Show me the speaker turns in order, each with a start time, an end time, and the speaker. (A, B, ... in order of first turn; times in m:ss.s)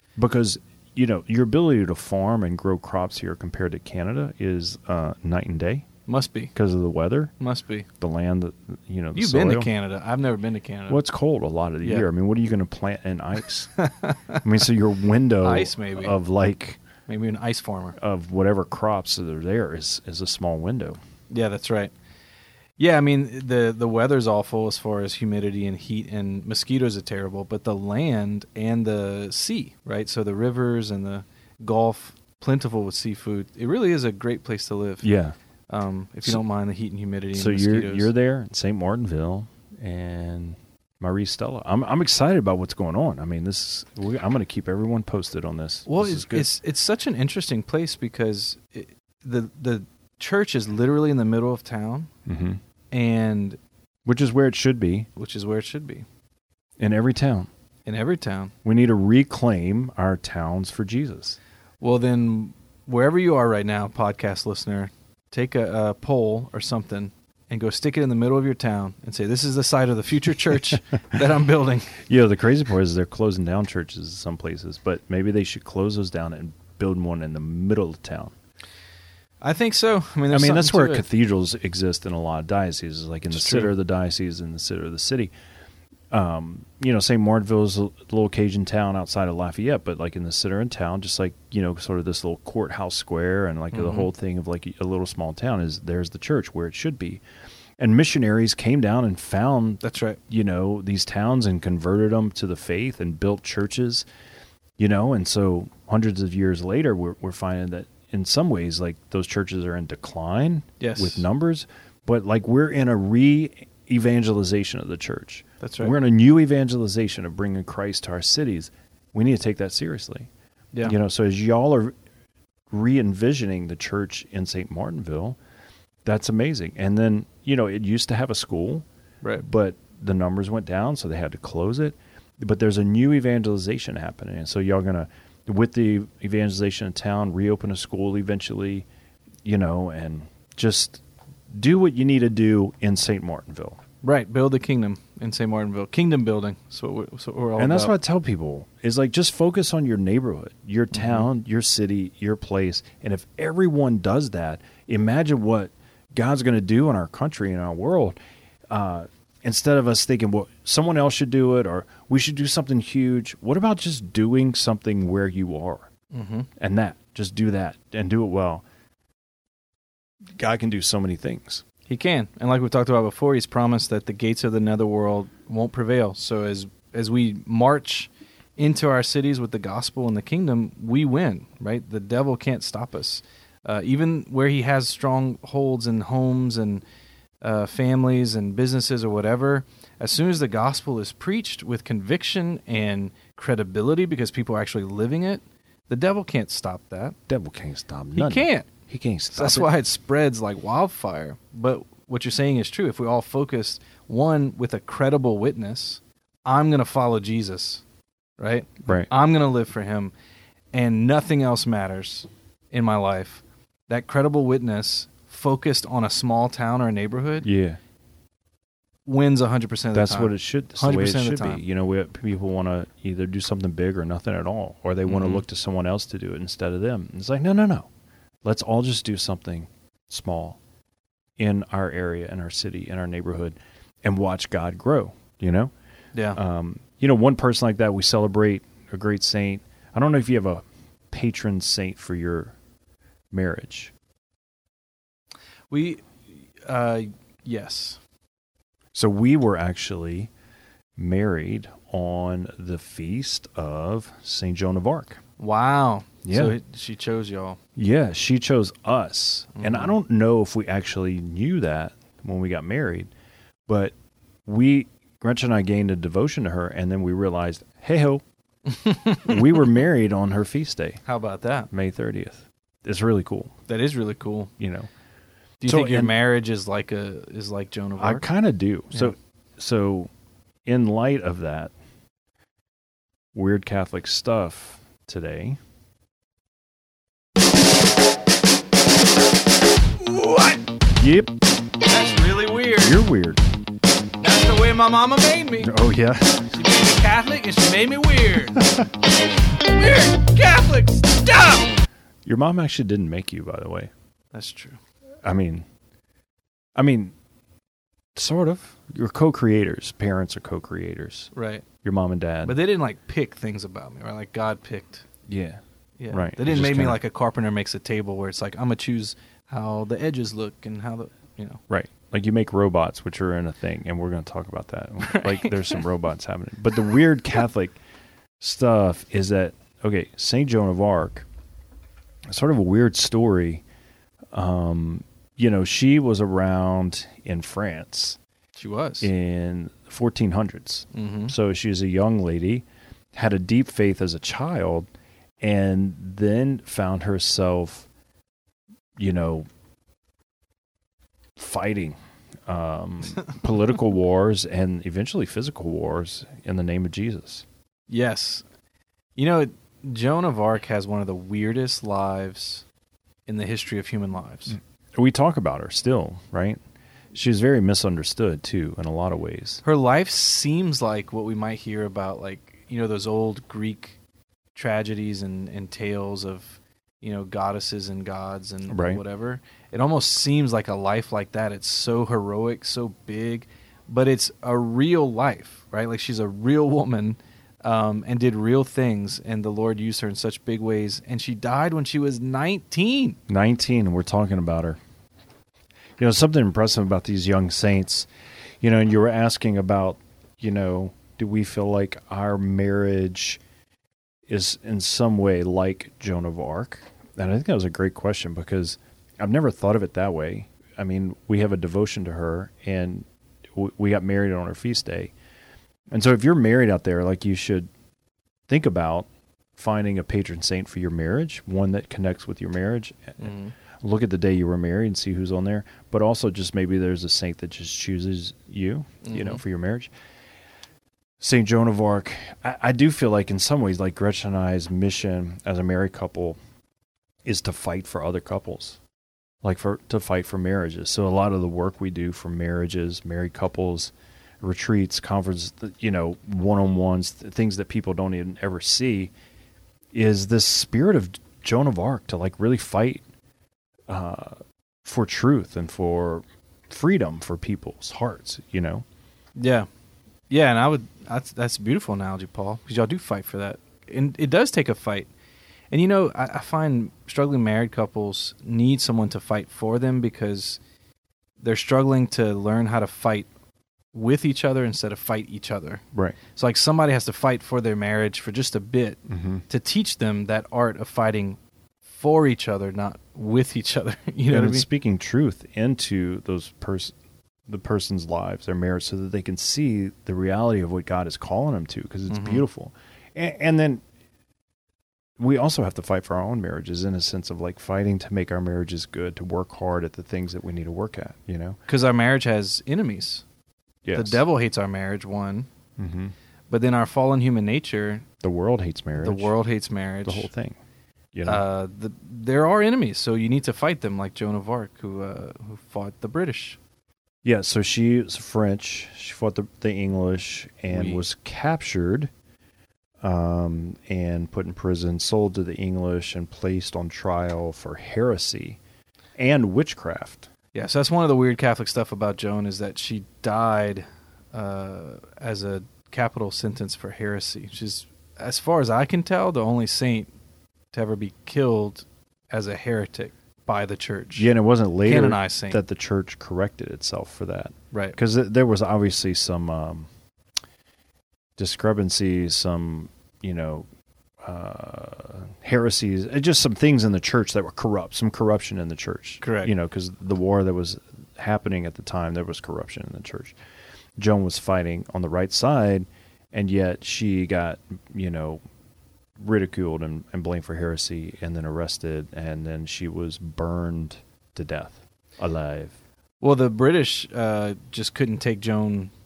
0:00.2-0:05.9 A
0:06.1-0:06.5 B
0:06.5-0:07.3 A
0:07.4-0:07.9 B
0:07.9-0:09.7 A
0:09.1-0:11.0 B
0:10.9-0:13.7 A
0:13.8-0:14.4 B
0:14.4-0:16.8 A
0:15.4-0:16.2 B
0:17.1-0:18.0 B
0:18.0-0:21.0 A
0:21.3-0:21.9 B
0:22.8-0:35.1 B
0:35.0-0:35.4 A
0:35.7-0:38.1 B
0:37.3-0:46.5 A
0:45.9-0:52.1 B
0:52.2-0:52.6 A
0:52.9-0:53.6 B
0:54.0-0:55.1 A
0:55.2-0:56.0 B
0:56.8-0:57.5 A
0:57.8-0:58.5 B
0:58.6-1:01.4 A
1:01.8-1:12.0 B
1:11.9-1:18.3 A
1:19.4-1:21.0 B
1:20.3-1:25.3 A
1:23.3-1:23.7 B
1:26.1-1:37.2 A
1:33.7-1:34.1 B
1:37.8-1:44.0 A
1:39.8-1:40.2 B
1:44.8-2:00.3 A
1:50.8-1:51.2 B
1:55.6-1:55.9 B
2:00.8-2:02.0 A
2:02.7-2:05.4 A
2:06.0-2:08.8 A
2:09.4-2:18.8 A
2:19.4-2:23.8 A
2:24.0-2:27.9 B
2:27.6-2:38.2 A
2:30.9-2:31.3 B
2:38.7-2:45.9 A
2:46.1-2:46.5 B
2:46.6-2:48.6 A
2:50.3-2:51.6 A
2:51.9-3:06.8 B
3:07.4-3:17.2 B
3:17.3-3:19.7 A
3:18.1-3:18.7 B
3:19.3-3:27.8 B
3:28.4-3:30.1 B
3:28.8-3:29.1 A
3:30.7-3:37.5 B
3:37.4-3:37.8 A
3:39.0-3:41.6 B
3:39.9-3:47.9 A
3:45.0-3:45.4 B
3:48.4-3:50.6 A
3:51.4-3:55.7 A
3:56.1-3:56.4 B
3:56.3-4:02.5 A
4:03.3-4:03.9 A
4:05.7-4:08.0 B
4:08.9-4:10.3 A
4:11.0-4:15.2 A
4:15.4-4:17.6 B
4:16.2-4:16.5 A
4:17.8-4:23.1 A
4:19.6-4:19.9 B
4:23.7-4:28.2 A
4:28.7-4:29.3 B
4:29.2-4:31.0 A
4:31.0-4:31.7 B
4:31.7-4:33.6 A
4:33.7-4:34.5 B
4:34.6-4:34.9 A
4:35.6-4:38.2 B
4:35.6-4:36.1 A
4:38.0-4:40.1 A
4:40.6-4:41.7 A
4:43.3-4:45.6 A
4:50.0-4:50.6 B
4:51.0-4:51.3 A
4:51.8-4:53.0 B
4:52.8-4:53.4 A
4:54.2-4:55.7 B
4:55.6-4:56.5 A
4:56.5-4:58.8 B
4:59.6-5:01.7 B
5:02.2-5:03.9 A
5:04.3-5:04.8 B
5:05.2-5:05.6 A
5:06.7-5:07.1 A
5:08.1-5:11.3 A
5:11.3-5:11.6 B
5:11.8-5:12.5 A
5:12.4-5:15.1 B
5:15.3-5:17.0 A
5:16.0-5:21.6 B
5:21.7-5:27.8 A
5:25.0-5:25.8 B
5:28.4-5:31.2 A
5:32.3-5:33.6 A
5:34.3-5:38.2 A
5:38.6-5:39.1 B
5:39.0-5:47.9 A
5:40.9-5:41.3 B
5:49.0-5:49.5 A
5:51.4-5:57.4 A
5:57.9-5:58.4 B
5:59.2-6:02.6 B
6:03.3-6:04.6 B
6:04.5-6:06.6 A
6:07.1-6:09.6 A
6:09.6-6:14.0 B
6:14.5-6:33.2 B
6:18.7-6:19.0 A
6:33.3-6:34.8 A
6:36.0-6:38.1 A
6:38.6-6:43.4 A
6:44.3-6:55.1 A
6:55.9-6:57.7 A
6:58.5-7:09.9 A
7:03.2-7:03.5 B
7:09.0-7:09.4 B
7:11.2-7:16.4 A
7:17.2-7:18.8 A
7:19.4-7:29.1 A
7:29.9-7:33.0 A
7:33.9-7:38.8 A
7:39.4-7:39.7 B
7:40.3-7:45.1 B
7:45.7-7:50.6 B
7:51.4-7:53.3 B
7:53.9-8:04.6 B
7:59.1-7:59.4 A
8:04.3-8:06.9 A
8:07.5-8:13.8 A
8:12.1-8:12.4 B
8:15.2-8:21.6 A
8:21.7-8:23.2 B
8:23.8-8:24.2 A
8:23.9-8:25.5 B
8:25.8-8:26.1 A
8:26.5-8:28.0 B
8:28.2-8:29.3 A
8:29.0-8:30.3 B
8:30.0-8:30.6 A
8:31.1-8:31.4 A
8:31.2-8:36.6 B
8:37.2-8:42.1 A
8:40.7-8:41.0 B
8:43.0-8:48.6 A
8:49.2-8:50.3 A
8:50.5-9:00.1 B
9:00.7-9:04.3 B
9:04.1-9:09.9 A
9:04.8-9:05.6 B
9:07.7-9:08.0 B
9:11.4-9:13.7 A
9:14.2-9:23.4 A
9:19.2-9:19.5 B
9:24.0-9:28.4 A
9:29.2-9:35.8 A
9:36.2-9:38.9 B